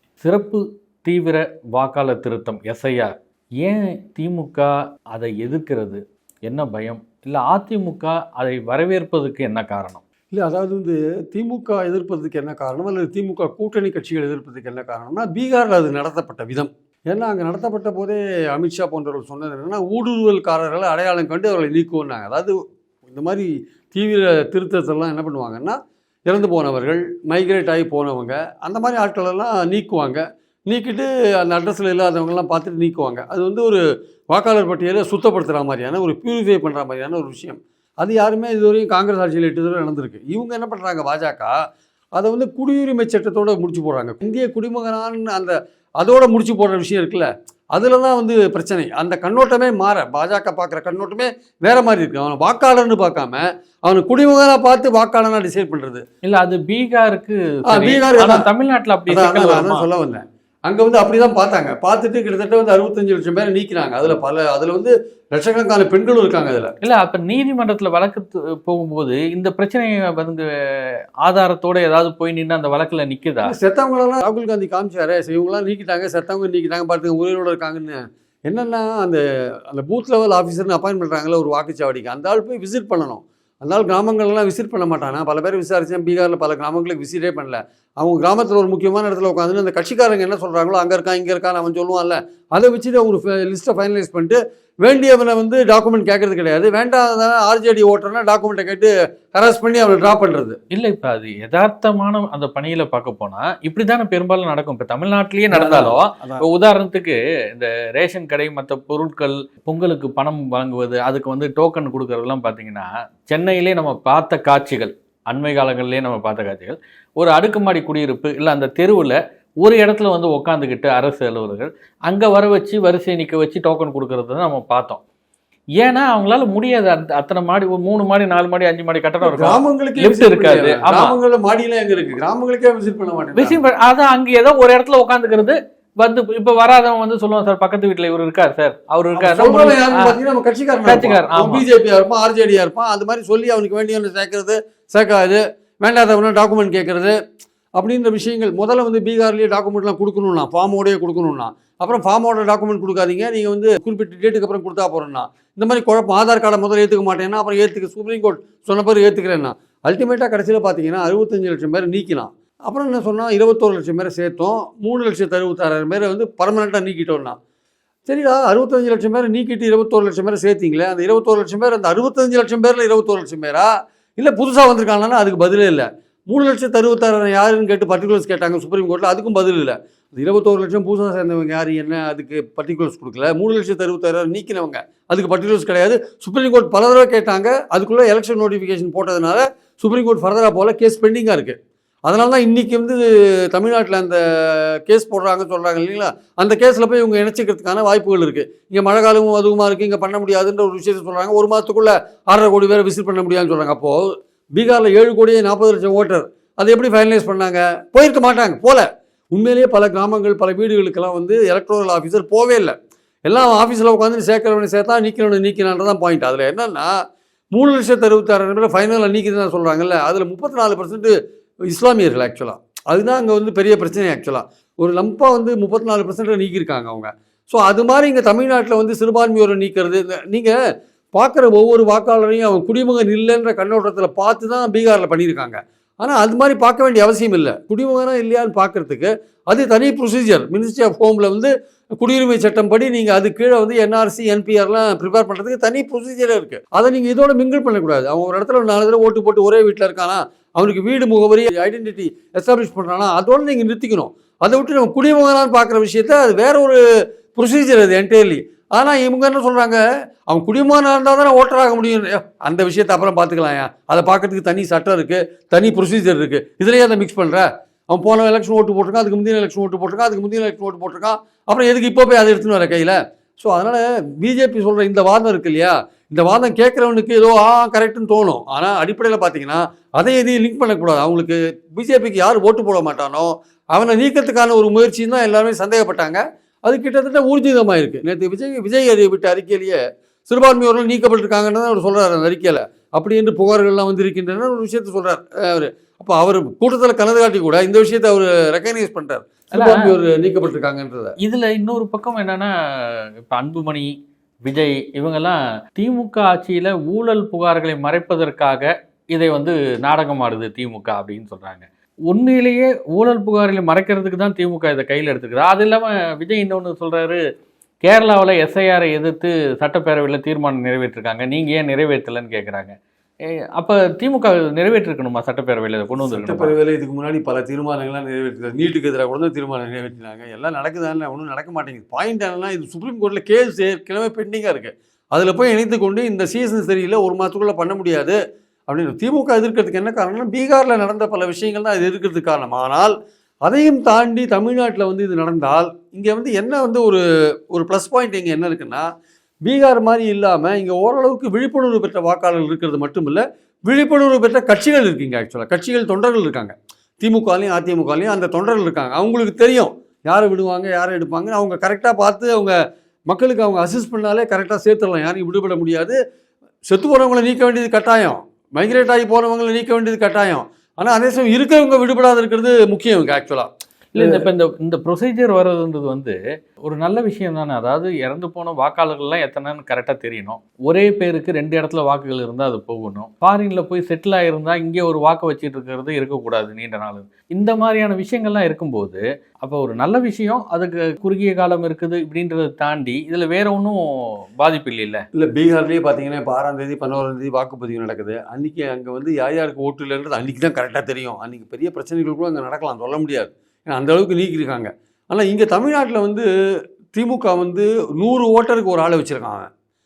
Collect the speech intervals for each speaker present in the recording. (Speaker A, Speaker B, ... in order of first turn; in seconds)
Speaker A: 0.2-10.0, 56.2-59.9, 66.8-73.5, 100.7-125.0, 125.8-131.2, 133.3-140.2, 140.9-141.6, 299.6-299.9, 301.2-303.9, 304.4-317.2, 317.8-322.7, 323.6-326.5, 373.9-393.9, 394.4-395.1
Speaker B: 10.3-22.6, 23.1-41.5, 42.2-56.0, 57.7-58.5, 59.1-66.7, 73.5-100.6, 105.5-106.4, 129.2-133.6, 139.2-147.2, 147.8-167.4, 168.1-212.7, 213.3-216.9, 217.5-221.1, 221.7-230.6, 231.2-256.8, 257.4-259.8, 260.3-301.1, 326.0-338.2, 338.7-348.9, 349.4-362.6, 363.1-366.0, 366.7-374.3, 395.1-406.3, 406.9-409.5